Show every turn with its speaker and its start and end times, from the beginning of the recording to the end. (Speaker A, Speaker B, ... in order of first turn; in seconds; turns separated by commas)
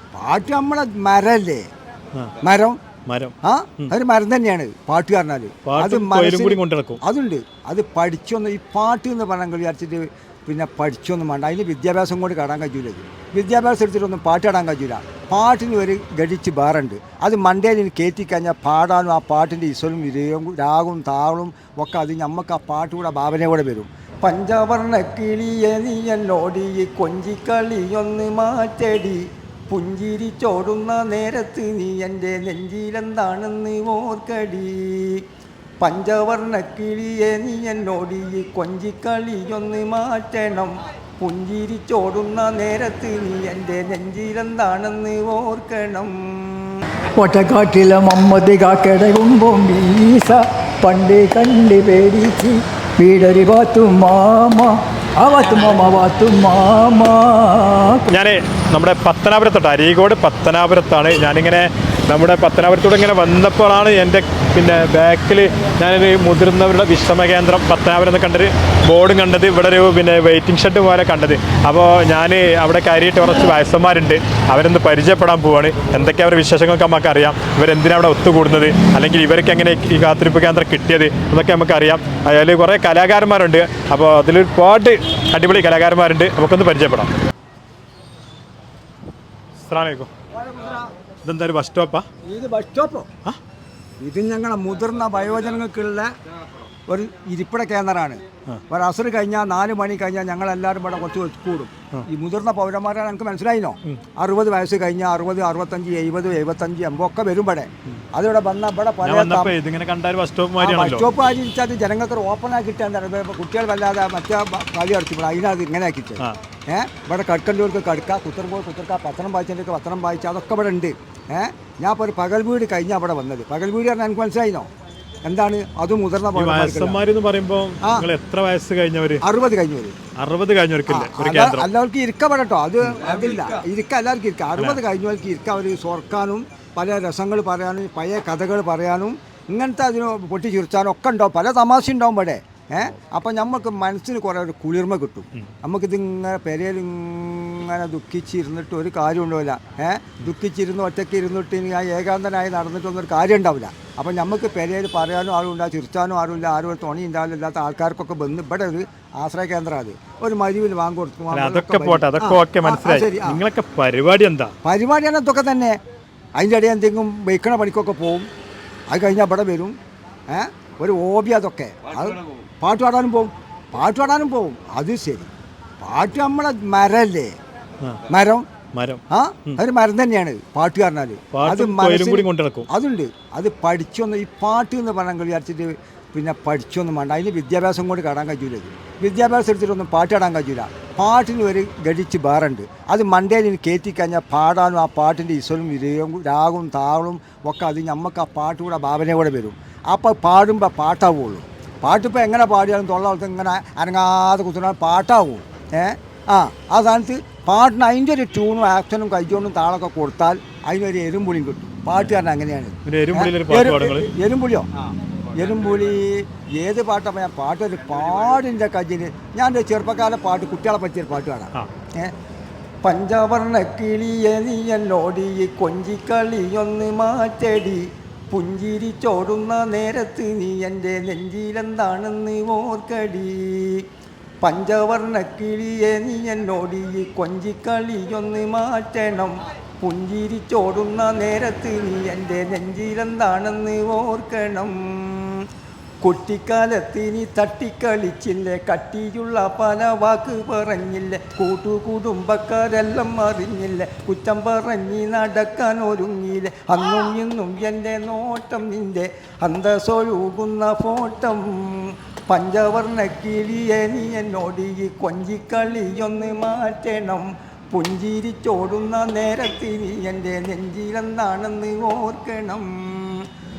Speaker A: 0.1-1.7, Speaker A: 2.4-2.8, Speaker B: 3.1-3.9, Speaker A: 3.4-35.2, Speaker B: 5.7-7.0, Speaker A: 35.8-46.7, Speaker C: 47.2-58.1, Speaker B: 58.1-87.1, Speaker B: 89.7-90.1, Speaker A: 90.4-90.8, Speaker B: 91.2-92.0, Speaker A: 92.3-93.1, Speaker A: 94.0-96.1, Speaker A: 96.9-109.5, Speaker B: 109.0-111.1, Speaker A: 110.6-124.7, Speaker A: 125.2-127.0, Speaker B: 126.4-129.2, Speaker A: 127.8-128.1, Speaker A: 129.2-130.0, Speaker B: 130.2-131.7, Speaker A: 130.9-163.4, Speaker B: 161.3-164.5, Speaker A: 164.6-165.8, Speaker A: 166.4-168.3, Speaker A: 168.9-169.8, Speaker A: 170.3-175.3, Speaker A: 175.8-177.3, Speaker A: 178.1-178.5, Speaker B: 178.7-179.6, Speaker A: 179.1-214.7, Speaker B: 181.3-182.7, Speaker B: 212.8-214.1, Speaker A: 215.3-222.1, Speaker A: 222.8-233.8, Speaker A: 234.4-245.4, Speaker A: 246.0-273.2